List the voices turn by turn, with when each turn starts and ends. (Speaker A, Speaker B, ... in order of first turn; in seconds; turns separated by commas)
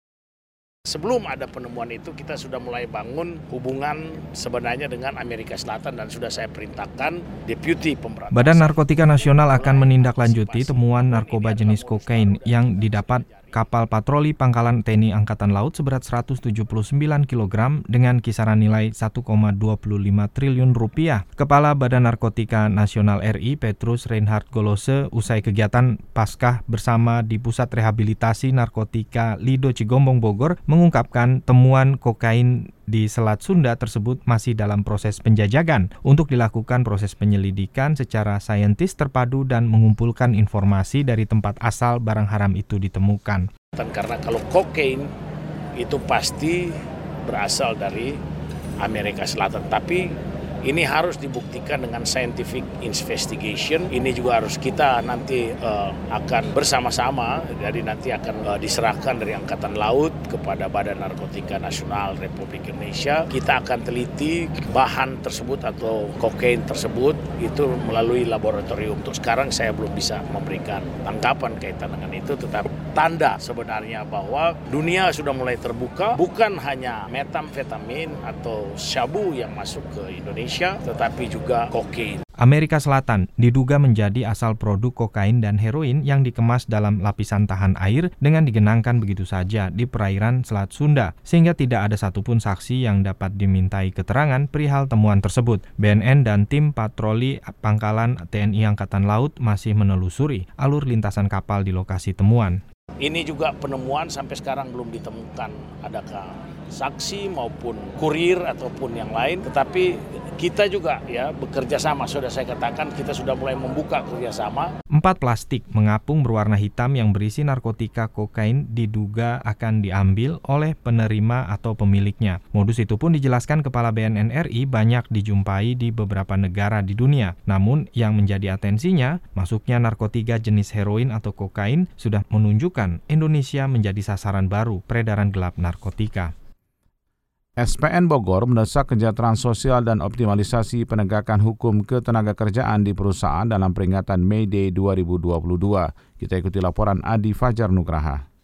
Speaker A: 0.9-13.7, Speaker B: 8.3-43.5, Speaker A: 43.8-45.1, Speaker A: 45.8-46.6, Speaker A: 47.3-48.1, Speaker A: 48.8-50.0, Speaker A: 50.7-82.2, Speaker B: 82.4-102.6, Speaker A: 103.0-114.7, Speaker B: 115.0-136.3, Speaker C: 137.6-148.2